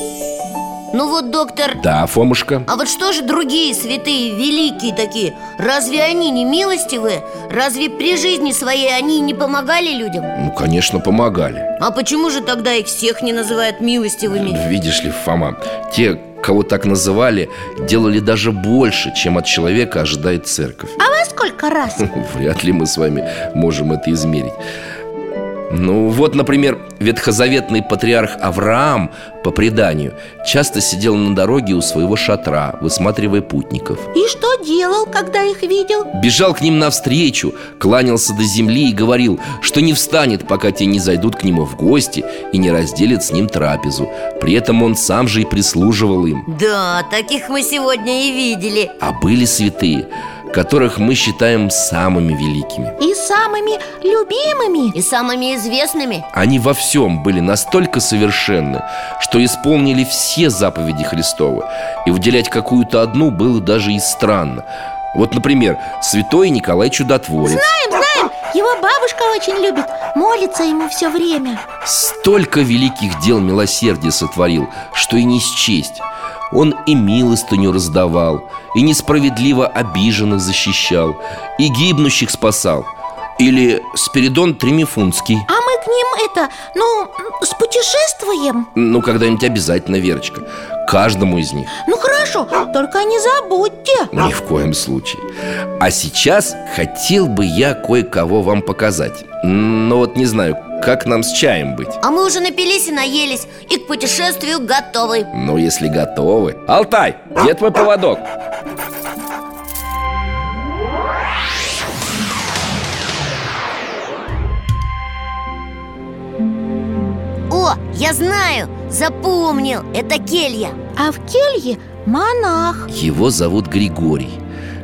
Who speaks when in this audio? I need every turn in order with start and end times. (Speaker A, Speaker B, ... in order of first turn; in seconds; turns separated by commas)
Speaker A: 0.9-1.8, Speaker B: 1.8-2.7, Speaker A: 2.7-10.3, Speaker B: 10.3-11.7, Speaker A: 11.8-14.6, Speaker B: 14.3-21.0, Speaker C: 21.0-22.1, Speaker B: 22.0-24.6, Speaker B: 25.7-34.1, Speaker C: 34.1-36.1, Speaker B: 36.1-46.4, Speaker A: 46.5-48.9, Speaker B: 49.0-52.9, Speaker C: 53.0-55.0, Speaker A: 54.9-56.3, Speaker B: 56.3-67.7, Speaker C: 67.4-71.6, Speaker B: 71.8-85.5, Speaker C: 85.5-88.7, Speaker B: 88.7-91.7, Speaker C: 91.8-94.1, Speaker B: 94.1-95.2, Speaker B: 95.8-102.0, Speaker A: 102.0-105.3, Speaker B: 105.3-108.3, Speaker A: 117.5-120.8, Speaker C: 121.0-122.9, Speaker B: 122.9-124.4